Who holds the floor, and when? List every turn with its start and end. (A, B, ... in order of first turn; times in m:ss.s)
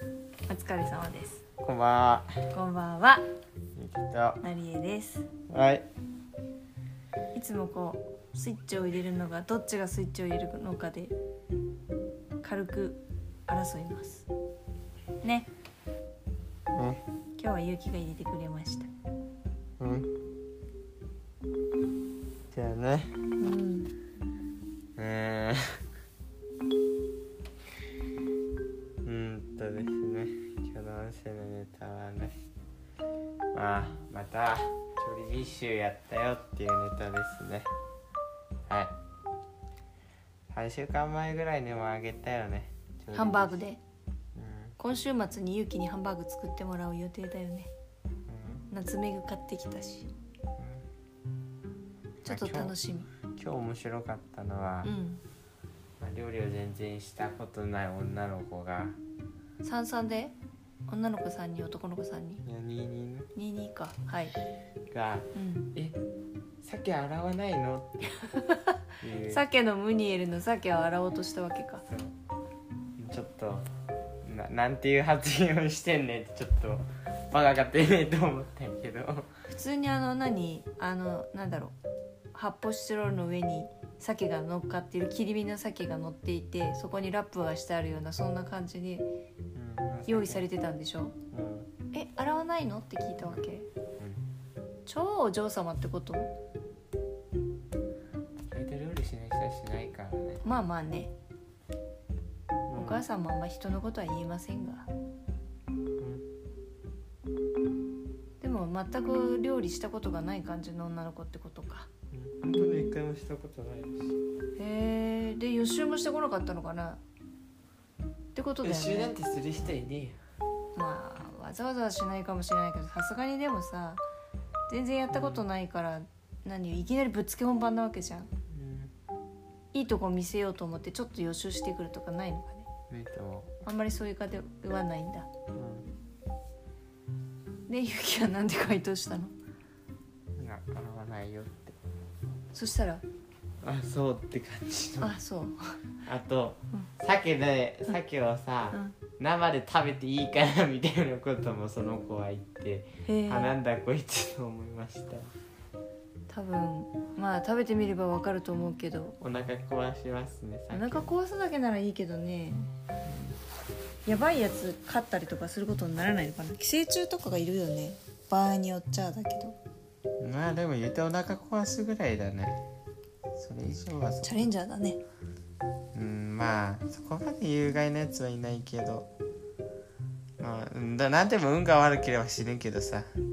0:00.5-0:01.4 A
0:01.6-0:02.3 B
0:02.5-0:03.2 A
0:03.8-0:04.4 B
0:04.4-0:05.3 A
0:05.5-0:05.9 B
0:07.3-0:11.1 A
0:12.4-0:14.3 A
0:15.2-0:15.5 A
0:16.7-0:17.0 B
0:17.4-0:18.9 A
0:19.8-0:20.1 B
0:22.5-0:23.2 B
0:23.4-0:23.9 A
0:25.0-0:25.8 B
0:29.0-0:32.4 B
0:33.5-0:37.7 B
0:38.7-0:38.9 B
0:40.5-0:43.6 B
0:43.1-0:43.8 A
0:44.4-0:44.7 B
0:44.8-0:47.7 A
0:48.3-0:48.6 B
0:48.7-0:50.1 A
0:50.6-0:50.8 B
0:52.2-0:53.1 A
0:52.2-0:52.8 B
0:53.3-0:54.9 B
0:54.8-0:55.2 A
0:56.0-0:59.0 B
0:59.6-1:00.3 A
1:00.9-1:02.4 A
1:02.4-1:03.3 B
1:03.3-1:04.3 A
1:04.9-1:06.0 B
1:05.3-1:05.7 A
1:06.6-1:08.4 B
1:09.0-1:09.4 B
1:09.2-1:11.8 A
1:13.0-1:13.7 B
1:14.2-1:19.3 B
1:19.5-1:21.7 A
1:22.3-1:29.1 A
1:29.5-1:30.5 B
1:30.1-1:31.2 A
1:31.3-1:31.7 B
1:31.9-1:33.7 A
1:34.0-1:34.2 B
1:34.8-1:36.3 A
1:38.5-1:40.4 B
1:40.4-1:41.1 A
1:42.7-1:43.0 B
1:42.8-1:44.9 A
1:46.0-1:46.2 B
1:48.4-1:51.9 A
1:52.1-1:54.2 B
1:54.6-1:57.0 A
1:58.3-1:59.1 A
1:58.6-2:00.2 B
2:00.8-2:04.0 A
2:04.7-2:08.3 A
2:05.1-2:05.5 B
2:08.5-2:08.9 B
2:09.7-2:12.7 A
2:12.9-2:13.6 B
2:13.6-2:15.3 A
2:15.5-2:15.9 B
2:17.7-2:19.3 A
2:20.4-2:21.8 B
2:22.5-2:23.0 A
2:23.6-2:25.1 B
2:25.0-2:25.8 A
2:26.0-2:35.3 B
2:33.0-2:33.5 A
2:36.3-2:39.2 A
2:39.2-2:41.1 B
2:40.7-2:42.7 A
2:43.1-2:43.3 B
2:44.0-2:49.6 A
2:50.2-2:52.6 B
2:53.3-2:54.5 B
2:54.2-2:55.0 A
2:55.9-2:59.1 B
3:00.4-3:03.1 B